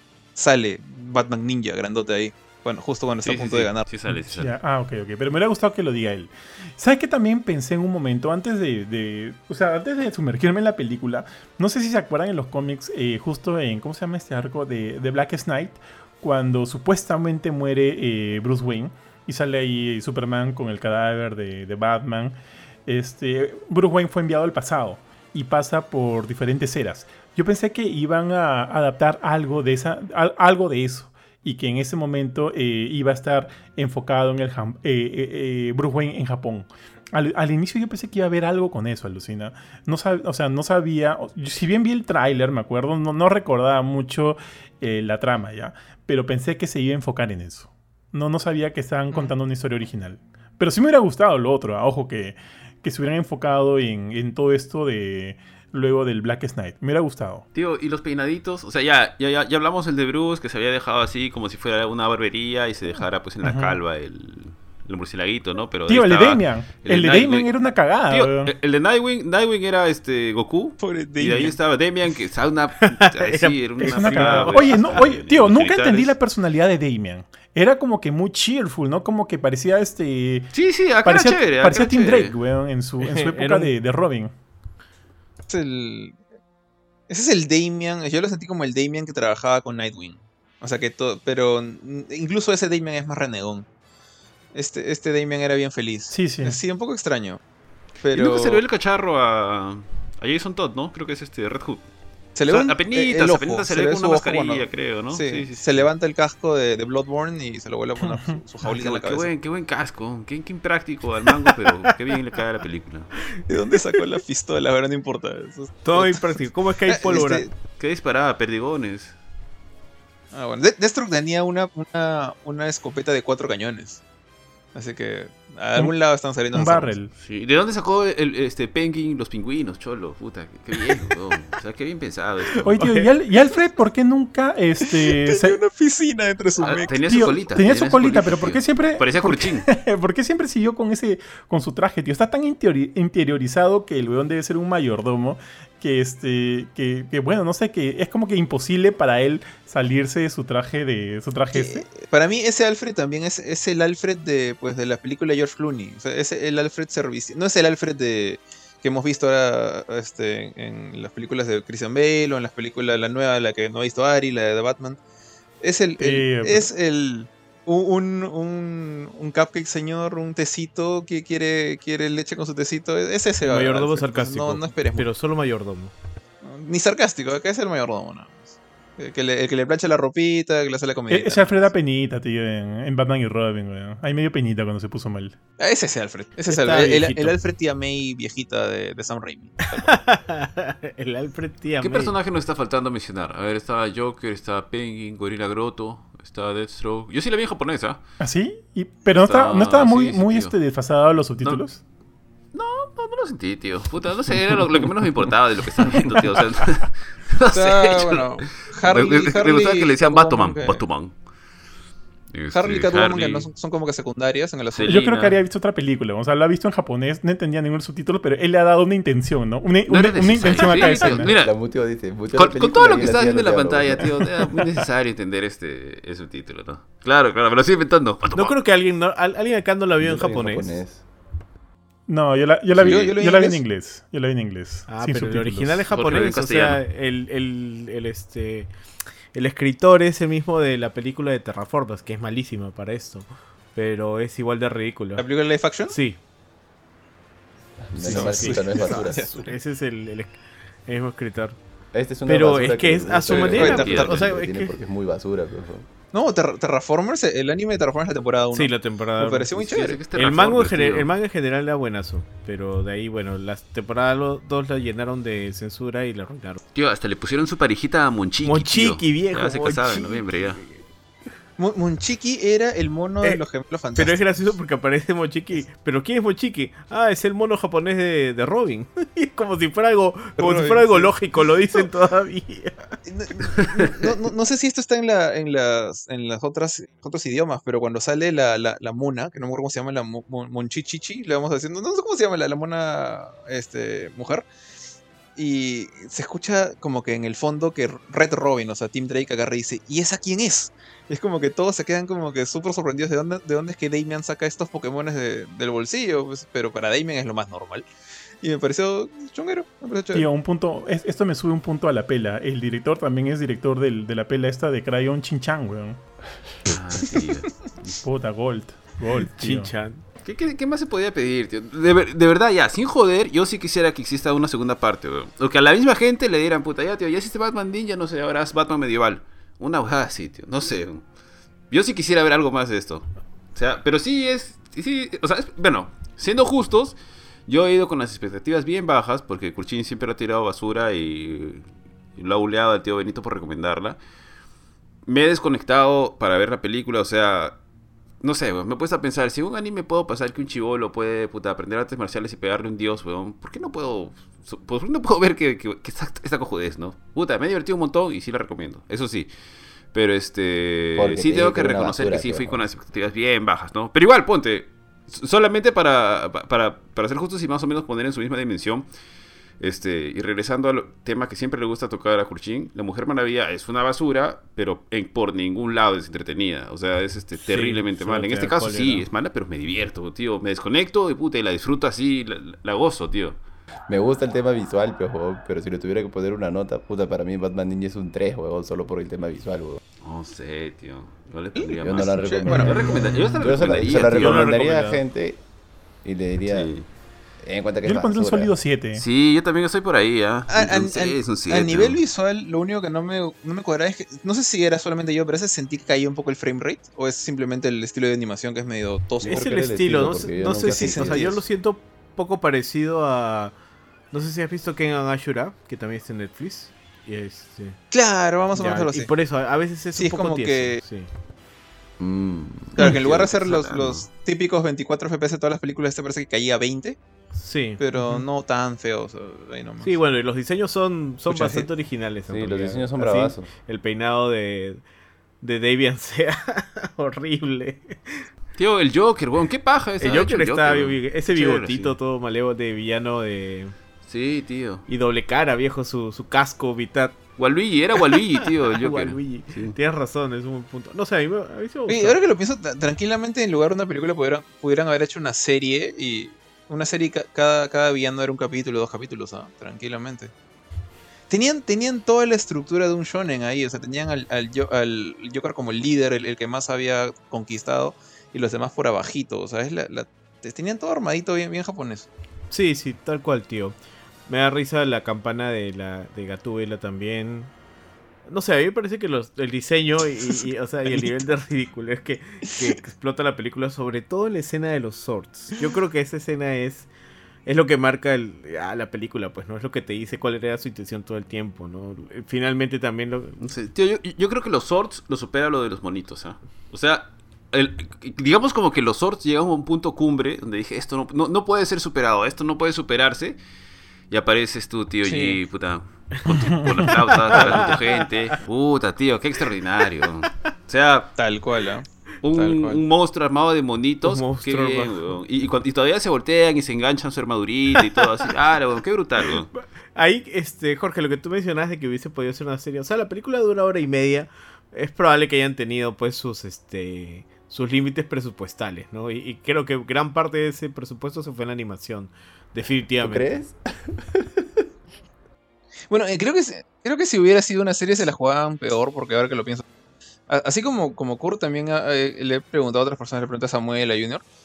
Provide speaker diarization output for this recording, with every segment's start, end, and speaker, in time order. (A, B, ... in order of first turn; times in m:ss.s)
0:00.4-0:03.8 A
0:03.2-0:04.5 B
0:04.1-0:22.3 C
0:22.8-0:57.4 C
0:57.5-1:07.5 B
1:03.4-1:03.8 C
1:05.9-1:08.5 C
1:08.1-1:16.1 B
1:10.8-1:11.6 A
1:12.9-1:15.0 D
1:13.8-1:20.5 C
1:20.5-1:22.4 B
1:21.0-1:24.3 C
1:23.0-1:23.7 D
1:25.5-1:26.2 A
1:27.1-1:33.6 A
1:34.5-1:37.4 A
1:36.1-1:36.6 C
1:38.0-1:38.6 A
1:38.1-1:41.8 B
1:42.4-1:49.3 A
1:42.5-1:45.8 B
1:48.0-1:48.4 C
1:48.6-1:53.1 B
1:53.5-1:57.5 A
1:53.6-1:54.0 D
1:55.8-1:57.4 D
1:57.8-1:59.2 B
2:00.3-2:04.0 A
2:04.7-2:07.0 A
2:06.5-2:07.1 C
2:07.2-2:12.8 B
2:12.6-2:15.6 C
2:12.8-2:13.1 A
2:14.8-2:16.9 A
2:16.6-2:19.7 B
2:17.0-2:31.8 C
2:31.5-2:45.0 A
2:45.6-2:55.1 A
2:46.0-2:46.7 C
2:53.4-2:55.9 D
2:56.4-3:01.7 A
3:01.1-3:05.4 C
3:05.6-3:09.9 A
3:06.5-3:07.3 D
3:09.7-3:12.1 D
3:11.8-3:18.0 B
3:18.2-3:21.8 C
3:19.2-3:20.6 B
3:22.5-3:31.1 B
3:27.5-3:30.8 A
3:32.3-3:33.5 B
3:32.5-3:35.3 A
3:34.7-3:35.4 B
3:34.8-3:41.3 C
3:39.9-3:41.6 B
3:41.2-3:44.3 E
3:42.3-3:48.6 B
3:48.3-3:50.8 D
3:50.0-3:51.0 E
3:52.1-3:55.8 C
3:52.8-3:53.6 A
3:54.9-3:58.7 D
3:55.9-3:56.8 B
3:59.3-4:05.2 D
4:05.2-4:06.0 A
4:05.9-4:06.2 D
4:07.8-4:09.3 E
4:08.0-4:11.6 D
4:08.0-4:09.5 A
4:11.9-4:15.9 E
4:12.2-4:14.7 D
4:13.3-4:14.2 A
4:13.3-4:14.1 B
4:16.1-4:20.0 A
4:18.5-4:26.6 D
4:19.6-4:21.1 B
4:26.7-4:30.6 B
4:28.4-4:30.8 D
4:31.6-4:34.2 A
4:33.9-4:42.9 D
4:40.4-4:41.2 A
4:43.1-4:54.4 A
4:43.6-4:44.1 B
4:55.4-5:07.8 A
5:08.4-5:10.3 A
5:10.1-5:16.0 C
5:16.6-5:17.9 B
5:17.9-5:19.7 C
5:19.4-5:20.0 D
5:20.2-5:31.0 B
5:31.7-5:44.0 B
5:45.0-5:47.6 B
5:48.2-5:59.3 B
5:59.9-6:08.9 B
6:00.9-6:02.6 E
6:09.6-6:23.4 B
6:17.4-6:19.1 D
6:23.9-6:29.8 E
6:30.0-6:34.6 B
6:31.6-6:33.3 A
6:31.8-6:35.4 E
6:33.9-6:35.0 D
6:36.0-6:36.7 E
6:36.4-6:36.8 B
6:37.4-6:38.5 E
6:37.8-6:39.0 C
6:38.9-6:42.0 B
6:40.5-6:49.6 A
6:49.2-6:51.3 E
6:49.2-6:53.5 D
6:50.4-6:51.4 A
6:54.1-6:57.8 D
6:57.9-6:59.1 A
6:58.5-7:01.1 D
6:59.9-7:00.8 A
7:02.0-7:03.3 E
7:02.7-7:04.0 B
7:02.8-7:07.0 A
7:07.3-7:08.2 D
7:07.8-7:10.0 A
7:09.8-7:14.8 D
7:11.3-7:11.7 E
7:12.3-7:13.5 E
7:15.4-7:18.2 D
7:18.6-7:22.0 B
7:20.0-7:23.7 D
7:24.0-7:24.8 B
7:24.9-7:27.2 D
7:27.4-7:29.8 B
7:27.9-7:32.2 D
7:31.9-7:40.3 A
7:41.3-7:52.1 A
7:52.5-7:53.8 D
7:54.3-7:57.5 D
7:58.2-8:06.9 D
8:00.8-8:01.2 A
8:07.4-8:13.4 D
8:13.4-8:23.4 B
8:24.1-8:31.2 B
8:25.0-8:25.4 A
8:26.3-8:26.9 C
8:26.9-8:28.3 D
8:31.2-8:32.8 A
8:32.2-8:39.5 B
8:34.0-8:35.2 D
8:37.8-8:38.2 D
8:39.2-8:53.4 D
8:53.0-8:54.5 E
8:55.9-8:59.6 A
9:00.3-9:04.2 A